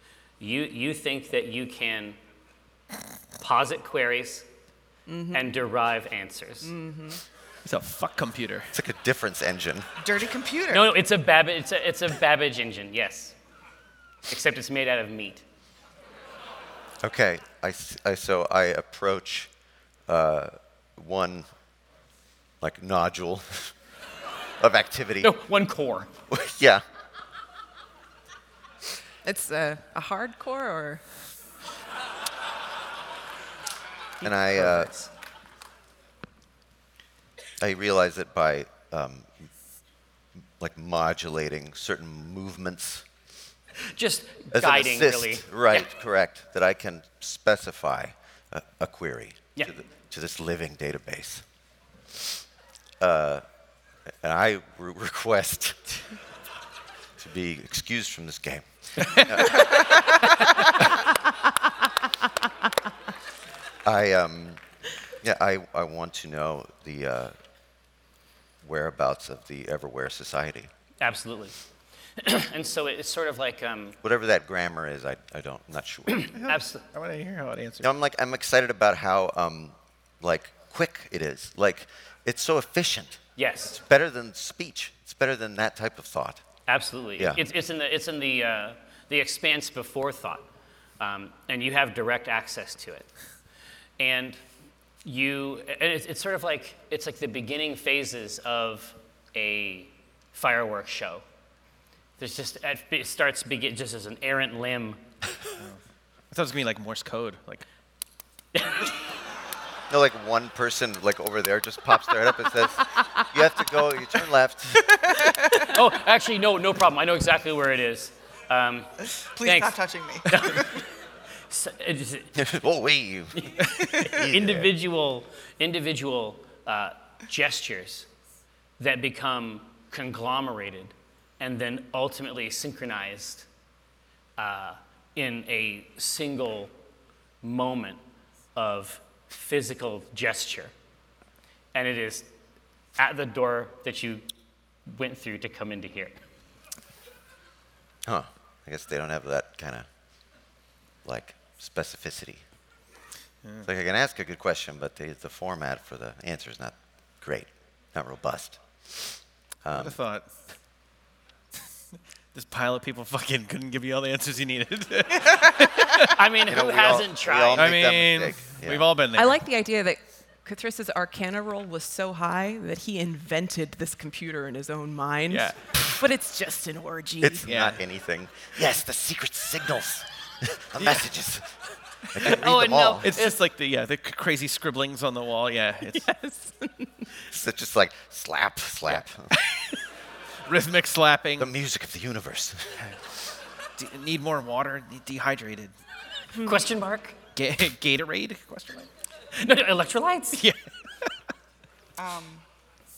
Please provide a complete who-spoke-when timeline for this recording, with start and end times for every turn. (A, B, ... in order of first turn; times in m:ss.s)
0:00.4-0:02.2 A
0:03.4-0:04.4 A
0:05.1-0:05.5 B
0:05.3-0:06.7 A
0:06.6-0:07.2 B
0:07.6-0:08.7 C
0:08.7-0:09.9 D
0:10.0-0:10.9 E
0:10.7-0:13.3 A
0:14.3-0:15.4 A
0:17.0-0:19.5 D
0:20.1-0:21.5 D
0:22.6-0:23.7 D
0:24.6-0:25.3 D
0:25.2-0:26.1 A
0:26.3-0:26.8 D
0:29.2-0:31.0 B
0:34.2-0:34.9 D
0:34.2-0:35.1 A
0:37.6-0:39.5 D
0:40.6-0:43.0 D
0:43.8-0:45.9 A
0:44.5-0:51.4 D
0:53.0-0:53.4 D
0:54.2-0:56.2 D
0:57.2-1:00.2 D
0:59.0-0:59.4 C
1:03.8-1:04.6 D
1:05.2-1:07.3 D
1:08.6-1:10.7 D
1:11.0-1:11.6 A
1:12.2-1:14.0 A
1:14.0-1:16.3 D
1:16.1-1:16.8 A
1:16.4-1:17.9 C
1:17.8-1:26.4 D
1:23.4-1:23.8 A
1:26.7-1:30.5 A
1:31.0-1:33.1 A
1:34.0-1:34.4 A
1:35.0-1:41.2 A
1:42.2-1:45.0 A
1:46.3-1:47.6 C
1:48.5-1:48.9 A
1:49.9-1:55.0 D
1:54.8-1:55.7 E
1:55.6-2:00.9 A
1:59.3-2:00.8 E
2:01.5-2:02.3 A
2:02.3-2:04.7 D
2:03.3-2:08.1 A
2:08.8-2:13.5 A
2:14.4-2:16.7 A
2:17.4-2:18.0 A
2:18.6-2:20.7 A
2:21.7-2:22.3 A
2:23.0-2:24.2 A
2:24.8-2:26.1 A
2:28.0-2:29.8 D
2:31.0-2:32.4 D
2:33.6-2:40.0 D
2:39.7-2:40.3 C
2:42.3-2:46.1 C
2:46.1-2:47.8 A
2:46.5-2:48.9 D
2:47.6-2:49.4 C
2:49.1-2:57.4 B
2:55.3-2:55.6 C
2:57.2-3:01.5 D
2:57.4-2:57.8 C
3:00.8-3:01.0 C
3:02.1-3:03.1 D
3:02.2-3:02.4 C
3:02.2-3:03.3 A
3:03.0-3:06.1 C
3:05.9-3:07.0 B
3:07.3-3:09.3 D
3:10.4-3:11.5 C
3:11.4-3:12.9 D
3:13.8-3:15.7 C
3:16.4-3:17.2 A
3:17.3-3:18.9 C
3:19.3-3:20.4 A
3:20.4-3:21.1 C
3:22.0-3:22.4 E